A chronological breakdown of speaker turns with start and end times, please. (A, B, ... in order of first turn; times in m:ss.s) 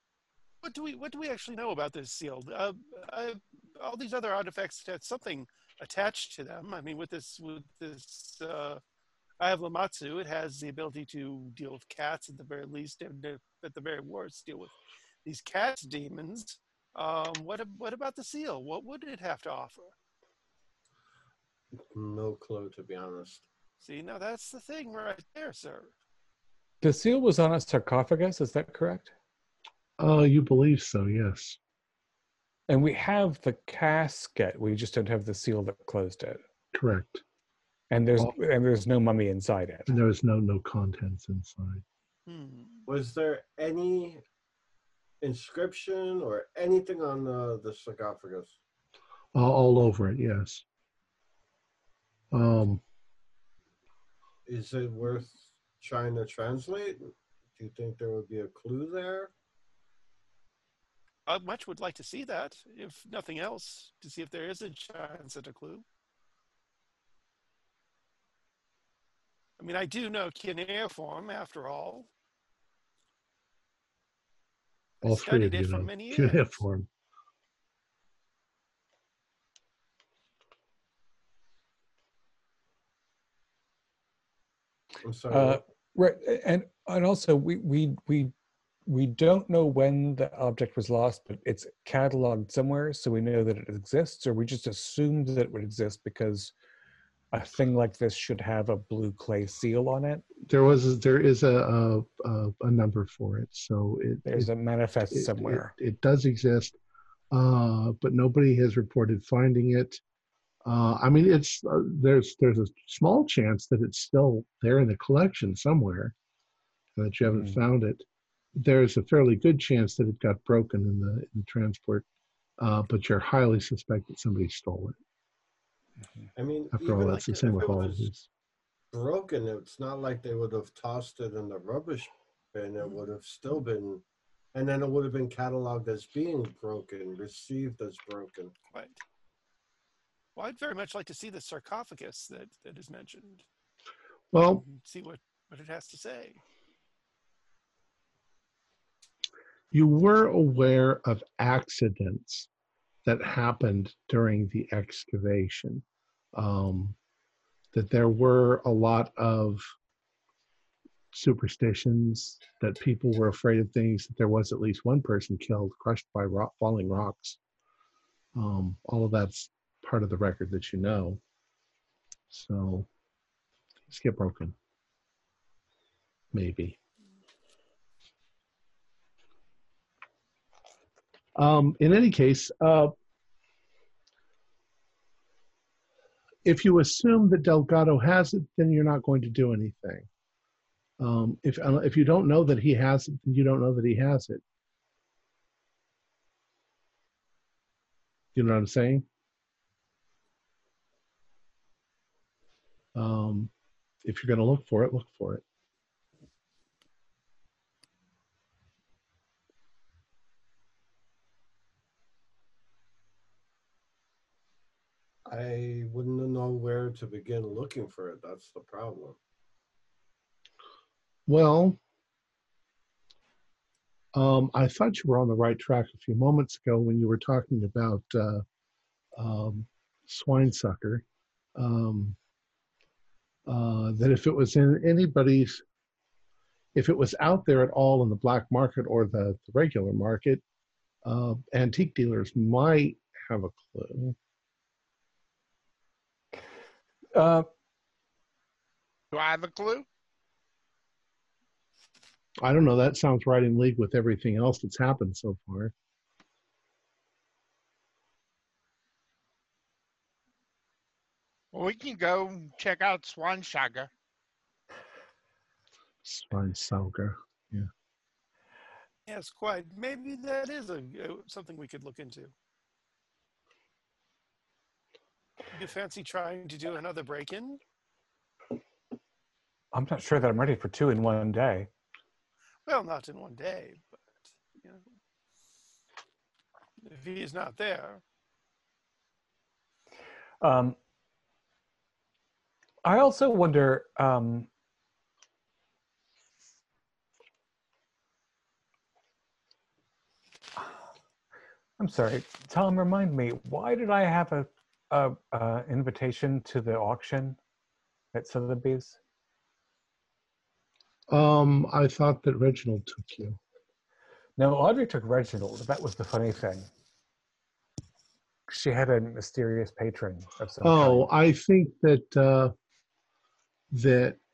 0:00.6-0:08.8 A
0:09.4-0:19.9 A
0:21.9-0:23.4 B
0:23.8-0:25.9 A
0:26.8-0:29.1 C
0:30.0-0:31.6 D
0:32.7-0:36.4 C
0:36.7-0:37.2 D
0:37.9-0:40.0 C
0:39.9-0:41.8 D
0:42.3-0:42.9 A
0:42.9-0:44.2 B
0:45.2-0:48.6 B
0:49.3-0:50.6 D
0:52.3-0:52.8 D
0:54.4-0:59.3 B
1:01.2-1:05.8 A
1:09.6-1:12.1 A
1:15.0-1:16.5 A
1:15.0-1:16.9 D
1:25.0-1:25.6 B
1:25.3-1:28.3 C
1:28.9-1:36.5 C
1:37.3-1:40.2 C
1:40.4-1:44.5 D
1:44.2-1:45.7 C
1:45.1-1:46.8 D
1:47.3-1:50.0 D
1:50.6-1:56.1 D
1:57.0-2:02.0 D
2:02.6-2:05.0 D
2:06.4-2:08.1 B
2:06.7-2:08.3 D
2:06.8-2:07.8 A
2:08.9-2:14.0 B
2:14.5-2:18.5 B
2:18.7-2:19.0 A
2:20.3-2:23.4 A
2:24.3-2:24.6 D
2:24.5-2:26.4 A
2:29.7-2:32.5 D
2:33.0-2:37.0 D
2:37.7-2:39.6 D
2:41.1-2:47.4 D
2:48.3-2:51.2 D
2:52.3-2:52.9 D
2:53.9-2:54.5 D
2:56.3-2:56.8 D
3:01.4-3:02.9 D
3:06.4-3:10.1 D
3:11.0-3:14.4 D
3:18.3-3:19.0 D
3:22.9-3:23.5 D
3:24.0-3:25.4 D
3:35.3-3:39.2 B
3:41.3-3:41.8 D
3:44.1-3:48.4 D
3:49.2-3:51.0 D
3:51.6-3:52.2 D
3:53.5-3:55.6 D
3:56.7-4:00.4 D
4:01.0-4:04.2 D
4:07.1-4:07.5 C
4:09.1-4:09.8 E
4:12.4-4:15.7 D
4:21.5-4:23.9 E
4:26.0-4:27.7 D
4:29.0-4:32.3 A
4:35.5-4:37.6 A
4:39.7-4:41.7 C
4:42.6-4:44.8 A
4:46.8-4:48.0 A
4:50.4-4:50.8 C
4:52.8-4:54.5 C
5:01.8-5:07.4 C
5:08.1-5:09.0 C
5:11.1-5:13.4 D
5:14.4-5:16.7 C
5:18.5-5:21.1 C
5:20.6-5:22.5 D
5:23.7-5:24.2 D